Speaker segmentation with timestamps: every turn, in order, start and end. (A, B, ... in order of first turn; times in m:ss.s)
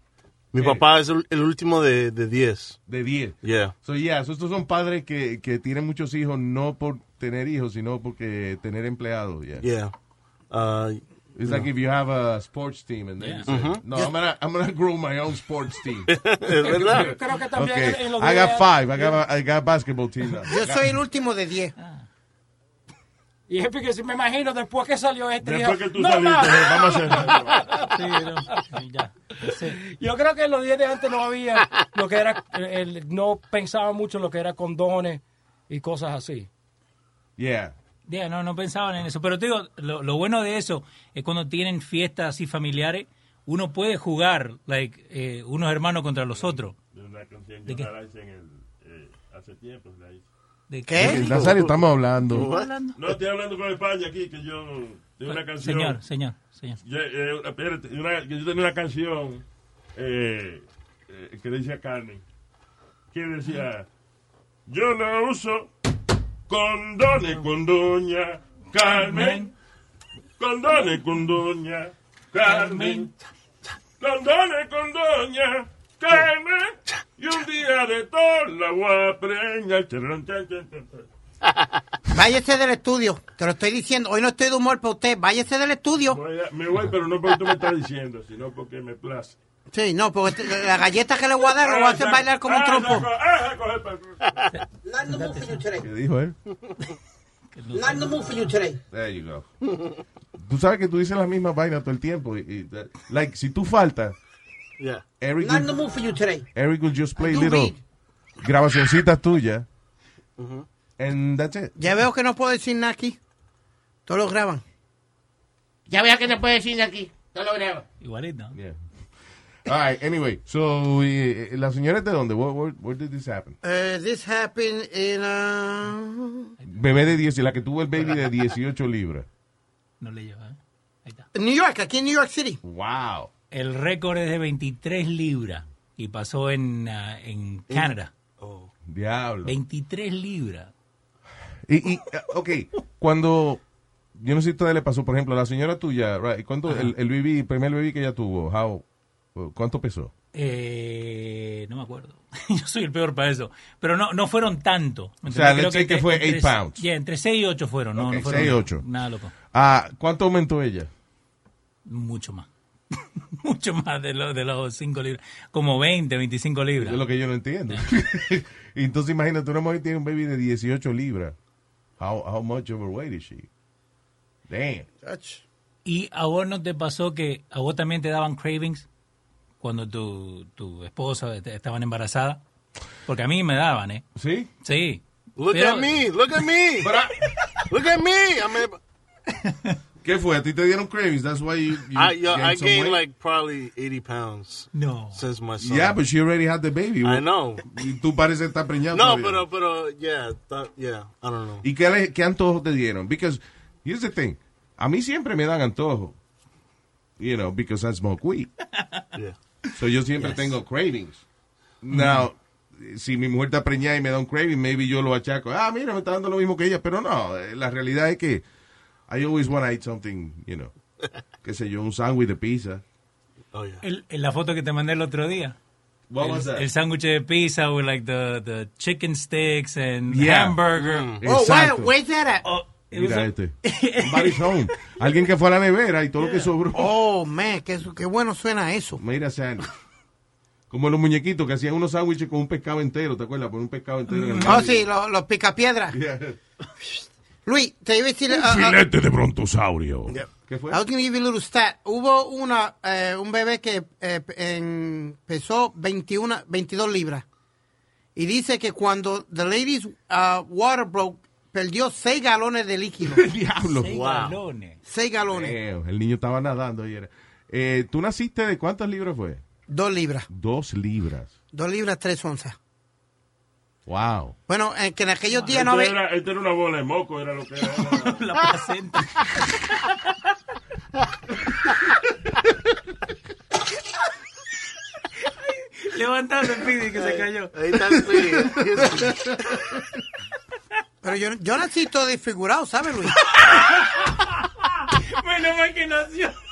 0:00.5-0:02.8 A
0:00.6-0:00.9 B
0:02.9-0:09.7 B
0:03.4-0:03.7 A
0:09.6-0:09.9 A
0:10.5-0:11.7 A
0:11.4-0:16.1 B
0:13.2-0:13.5 C
0:13.5-0:13.8 A
0:16.1-0:17.2 A
0:16.6-0:19.2 D
0:16.8-0:20.9 B
0:20.5-0:21.7 E
0:21.8-0:22.0 C
0:23.5-0:27.9 D
0:25.4-0:27.7 F
0:27.9-0:29.8 C
0:29.7-0:36.5 D
0:37.4-0:37.7 B
0:38.1-0:46.8 C
0:46.9-0:50.2 F
0:50.7-0:51.4 C
0:50.9-0:51.3 E
0:51.0-0:52.5 B
0:51.2-0:52.7 A
0:52.2-0:53.0 C
0:53.0-0:56.0 F
0:55.3-0:56.8 C
0:56.8-0:59.4 F
1:00.0-1:02.2 F
1:03.1-1:03.9 F
1:04.7-1:05.7 F
1:06.5-1:09.5 F
1:08.8-1:09.5 C
1:10.4-1:13.1 F
1:12.4-1:13.1 C
1:14.0-1:21.1 F
1:22.1-1:26.2 E
1:26.1-1:29.4 F
1:29.7-1:33.1 E
1:31.6-1:34.2 F
1:34.5-1:35.6 C
1:34.8-1:35.9 E
1:35.8-1:36.4 B
1:37.6-1:38.2 C
1:37.7-1:38.8 E
1:38.9-1:39.5 B
1:40.4-1:44.2 B
1:44.8-1:45.0 A
1:45.2-1:45.7 B
1:45.4-1:46.4 E
1:46.5-1:47.8 B
1:47.2-1:47.8 E
1:48.4-1:49.7 B
1:50.4-1:50.7 A
1:51.0-1:51.8 B
1:51.8-1:53.2 E
1:54.1-1:54.6 E
1:55.9-1:57.8 G
1:58.0-1:58.6 C
1:59.6-2:03.6 B
2:03.6-2:06.5 E
2:06.7-2:09.3 B
2:10.0-2:11.3 C
2:11.3-2:12.6 E
2:12.6-2:13.3 B
2:13.5-2:18.1 C
2:17.7-2:18.7 A
2:18.9-2:19.6 B
2:19.4-2:20.7 C
2:21.7-2:23.6 B
2:24.2-2:30.1 B
2:26.7-2:26.9 C
2:30.3-2:39.3 C
2:35.3-2:36.8 B
2:38.0-2:38.8 B
2:39.5-2:40.9 B
2:41.9-2:42.5 C
2:43.2-2:47.0 C
2:46.8-2:51.4 B
2:52.0-2:53.5 B
2:54.5-2:54.9 B
2:55.0-2:55.4 E
2:55.8-2:58.9 C
2:59.6-3:02.4 C
3:03.1-3:04.0 C
3:04.2-3:04.5 B
3:04.6-3:06.1 C
3:05.4-3:06.9 A
3:06.8-3:07.2 B
3:07.7-3:08.8 A
3:09.4-3:09.8 C
3:10.0-3:13.0 B
3:12.0-3:16.0 A
3:14.7-3:15.2 C
3:15.6-3:19.4 B
3:17.0-3:17.6 A
3:18.9-3:21.6 A
3:21.6-3:26.2 B
3:27.2-3:28.5 B
3:29.8-3:31.2 B
3:31.8-3:38.4 B
3:31.9-3:32.3 C
3:39.1-3:40.7 B
3:41.4-3:42.8 B
3:43.5-3:43.8 A
3:43.8-3:45.6 C
3:46.1-3:46.7 B
3:46.2-3:51.1 C
3:50.1-3:51.9 B
3:50.8-3:51.2 A
3:51.2-3:52.4 E
3:52.4-3:54.7 C
3:52.9-3:57.0 B
3:56.7-3:59.0 E
3:59.0-3:59.7 B
4:00.7-4:04.9 B
4:04.1-4:04.6 C
4:04.4-4:06.0 E
4:05.9-4:06.4 B
4:07.5-4:08.8 E
4:08.3-4:10.8 B
4:10.7-4:17.2 E
4:18.2-4:23.2 E
4:23.0-4:23.9 B
4:23.7-4:24.8 C
4:23.9-4:24.4 A
4:24.8-4:25.6 E
4:25.3-4:29.4 B
4:29.7-4:30.3 E
4:30.3-4:31.3 B
4:31.5-4:32.6 E
4:33.9-4:34.4 B
4:34.5-4:36.0 E
4:35.5-4:38.2 F
4:38.0-4:40.2 C
4:45.8-4:47.6 C
4:47.0-4:49.3 A
4:51.0-4:53.2 E
4:53.4-4:54.3 C
4:54.9-4:56.4 C